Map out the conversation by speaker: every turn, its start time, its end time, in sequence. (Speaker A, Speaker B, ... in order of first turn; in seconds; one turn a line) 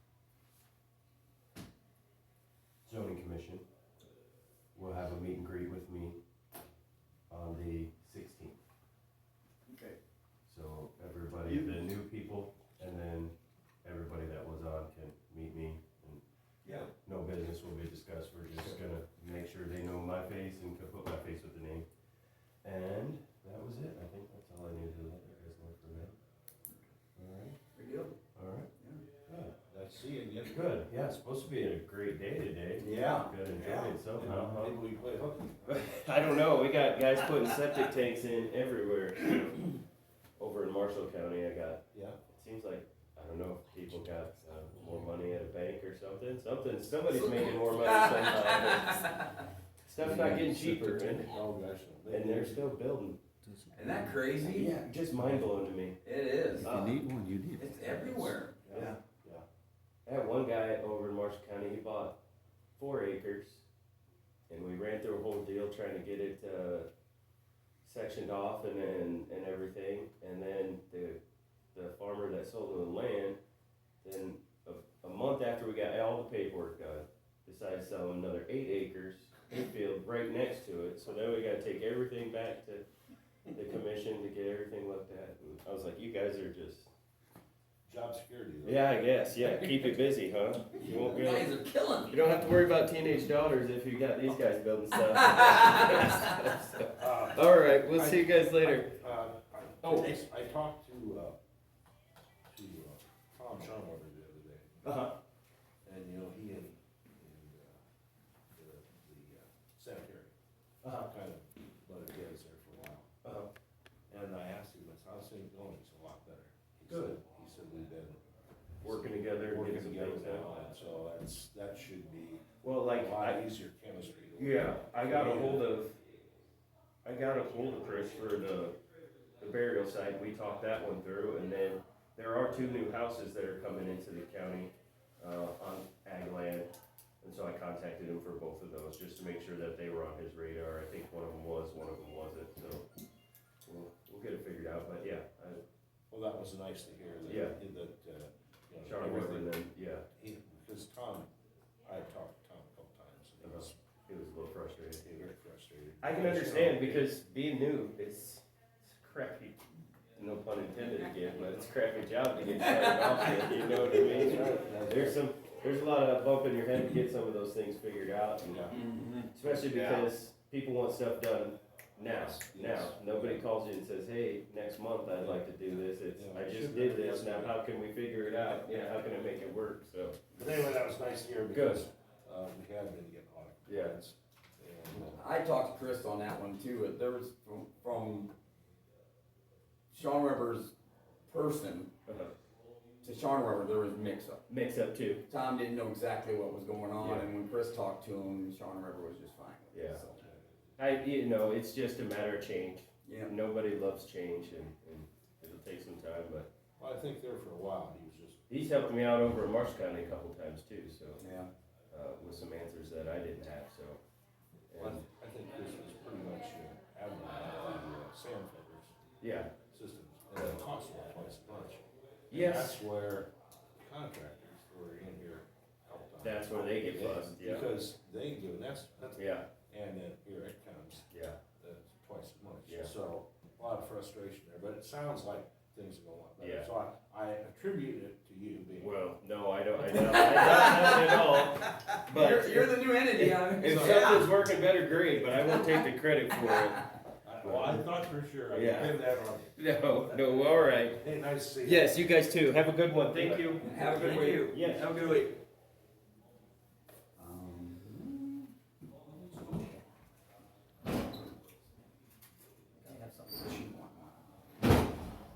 Speaker A: 2.9-3.6
Speaker A: 4.7-6.2
Speaker A: 7.3-8.6
Speaker B: 9.7-10.0
Speaker A: 10.5-16.2
Speaker B: 11.4-11.8
Speaker A: 16.9-21.9
Speaker A: 22.6-26.1
Speaker A: 27.1-27.6
Speaker B: 27.7-28.2
Speaker A: 28.3-28.7
Speaker A: 29.3-29.5
Speaker C: 29.3-30.6
Speaker A: 30.4-34.8
Speaker B: 32.8-33.9
Speaker C: 33.6-35.8
Speaker A: 35.7-39.8
Speaker A: 40.4-49.1
Speaker C: 41.9-42.2
Speaker B: 47.3-49.4
Speaker A: 49.9-51.3
Speaker C: 50.0-52.7
Speaker A: 52.1-53.2
Speaker D: 53.4-54.2
Speaker B: 53.7-54.8
Speaker A: 54.5-56.0
Speaker D: 55.1-55.4
Speaker B: 56.0-56.7
Speaker A: 56.6-57.0
Speaker D: 56.6-58.4
Speaker B: 57.6-58.9
Speaker C: 58.6-59.4
Speaker A: 60.0-62.2
Speaker A: 62.8-63.6
Speaker A: 64.5-66.9
Speaker A: 67.8-71.2
Speaker A: 71.7-73.4
Speaker A: 74.0-82.8
Speaker A: 83.5-86.9
Speaker C: 87.8-88.9
Speaker A: 88.6-91.5
Speaker B: 89.4-89.8
Speaker B: 90.8-92.5
Speaker C: 90.8-91.1
Speaker A: 92.1-98.9
Speaker B: 95.3-96.1
Speaker C: 97.0-101.3
Speaker A: 99.8-100.1
Speaker C: 102.5-104.9
Speaker A: 104.8-105.2
Speaker C: 105.8-107.8
Speaker C: 108.5-110.3
Speaker C: 110.8-113.1
Speaker A: 113.2-113.5
Speaker C: 114.1-118.2
Speaker A: 116.9-117.2
Speaker C: 118.8-125.7
Speaker A: 118.8-120.5
Speaker A: 122.6-123.4
Speaker A: 124.4-126.0
Speaker A: 127.0-128.8
Speaker A: 129.4-142.8
Speaker A: 143.7-145.6
Speaker C: 146.1-149.6
Speaker A: 147.3-147.6
Speaker A: 148.8-150.0
Speaker C: 150.1-151.3
Speaker C: 151.8-153.8
Speaker A: 153.4-155.3
Speaker C: 155.0-157.1
Speaker A: 156.0-159.6
Speaker A: 160.1-168.7
Speaker B: 162.6-163.6
Speaker C: 163.5-165.2
Speaker C: 168.4-168.8
Speaker B: 168.7-170.1
Speaker A: 169.3-180.2
Speaker C: 172.1-173.4
Speaker C: 175.2-177.6
Speaker C: 180.3-185.2
Speaker A: 181.5-181.9
Speaker A: 183.7-184.0
Speaker B: 185.0-188.3
Speaker B: 189.9-190.7
Speaker B: 191.3-191.9
Speaker A: 192.1-192.3
Speaker B: 193.0-194.4
Speaker A: 194.5-195.2
Speaker B: 195.3-200.2
Speaker A: 197.0-197.3
Speaker A: 199.7-200.0
Speaker A: 200.8-206.5
Speaker B: 203.0-203.3
Speaker C: 206.8-208.4
Speaker A: 208.5-211.2
Speaker B: 211.2-211.5
Speaker A: 211.9-214.0
Speaker A: 214.7-215.0
Speaker C: 214.8-218.9
Speaker A: 219.2-219.5
Speaker C: 219.6-238.9
Speaker A: 222.3-222.8
Speaker A: 226.2-227.7
Speaker A: 229.1-229.5
Speaker A: 231.1-231.4
Speaker A: 232.6-232.9
Speaker A: 236.4-236.7
Speaker A: 238.8-246.9
Speaker B: 239.9-244.3
Speaker C: 243.6-244.4
Speaker B: 245.3-245.7
Speaker C: 247.2-250.3
Speaker A: 247.4-247.8
Speaker A: 248.5-249.0
Speaker A: 249.6-251.0
Speaker C: 250.9-252.0
Speaker A: 251.6-255.3
Speaker B: 253.3-255.3
Speaker B: 257.1-258.5
Speaker B: 259.0-259.8
Speaker B: 262.8-264.3